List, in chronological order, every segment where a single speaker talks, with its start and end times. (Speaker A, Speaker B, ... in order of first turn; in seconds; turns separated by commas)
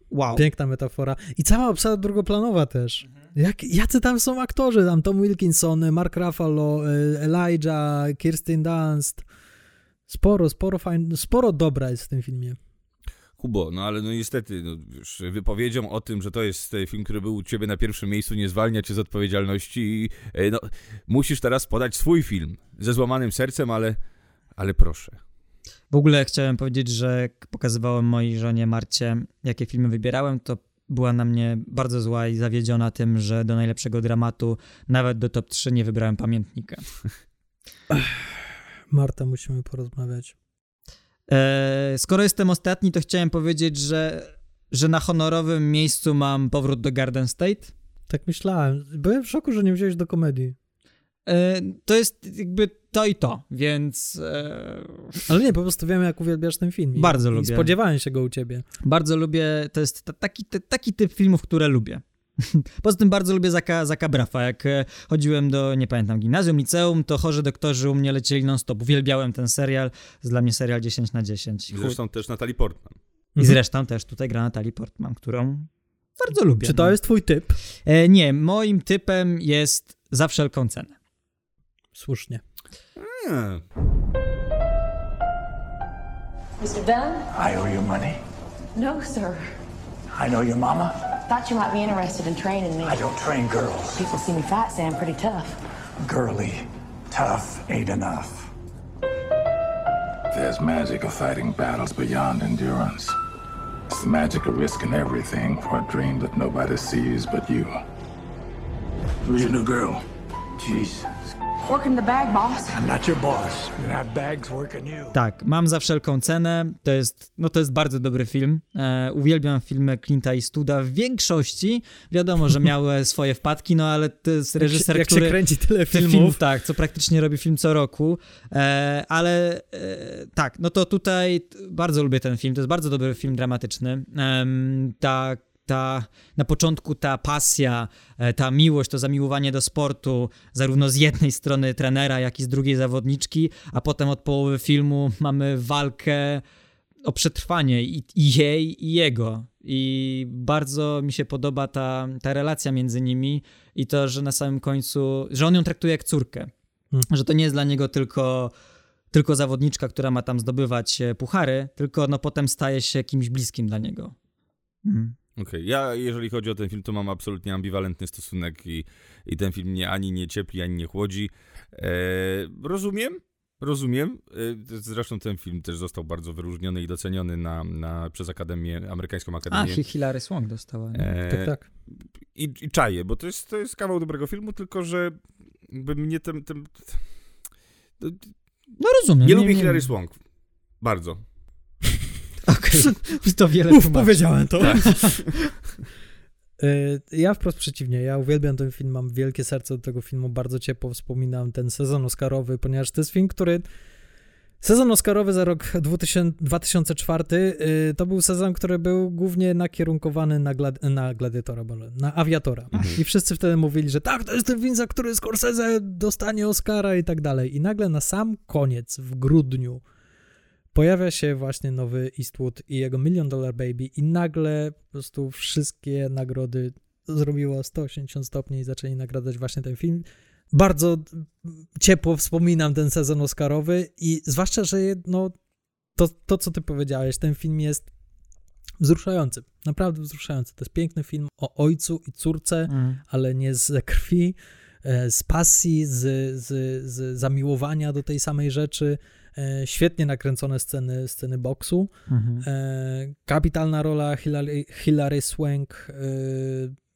Speaker A: 0.1-0.4, Speaker B: 0.3-9.2, Speaker B: 10.1-12.6, Speaker C: 13.4-24.0, Speaker C: 24.6-25.2, Speaker A: 25.9-36.8, Speaker B: 38.9-40.3, Speaker A: 41.3-47.7, Speaker B: 48.1-50.5, Speaker A: 51.3-55.2, Speaker B: 55.3-58.6, Speaker A: 57.0-57.7, Speaker A: 58.8-72.0, Speaker C: 71.7-73.0, Speaker A: 73.4-77.0, Speaker B: 76.6-77.6, Speaker A: 77.8-80.9, Speaker B: 81.9-82.4, Speaker C: 83.0-83.6, Speaker D: 86.6-87.3, Speaker E: 87.3-88.2, Speaker D: 88.7-89.4, Speaker E: 90.2-90.9, Speaker D: 91.3-93.0, Speaker E: 92.8-94.0, Speaker D: 93.9-95.6, Speaker E: 96.0-98.5, Speaker F: 100.3-103.1, Speaker F: 103.9-107.8, Speaker F: 109.2-110.0, Speaker F: 110.6-111.0, Speaker D: 111.7-112.8, Speaker E: 112.8-115.1, Speaker A: 115.1-125.3, Speaker B: 124.6-126.4, Speaker A: 125.9-146.4, Speaker A: 147.0-156.5, Speaker A: 157.1-158.5, Speaker A: 159.1-164.1, Speaker A: 164.8-165.1, Speaker C: 165.4-179.8, Speaker A: 179.5-181.1, Speaker C: 180.9-181.5, Speaker B: 181.3-181.6, Speaker C: 182.3-187.0, Speaker C: 188.0-188.3, Speaker A: 188.8-189.9, Speaker C: 189.2-190.2, Speaker C: 190.8-191.2, Speaker A: 192.5-195.2, Speaker B: 193.7-195.2, Speaker B: 196.6-203.6, Speaker B: 204.6-219.8, Speaker C: 212.7-213.0, Speaker B: 220.7-235.3, Speaker B: 236.0-237.9, Speaker B: 238.8-251.9, Speaker A: 242.7-243.0, Speaker A: 252.1-252.4, Speaker B: 252.4-256.7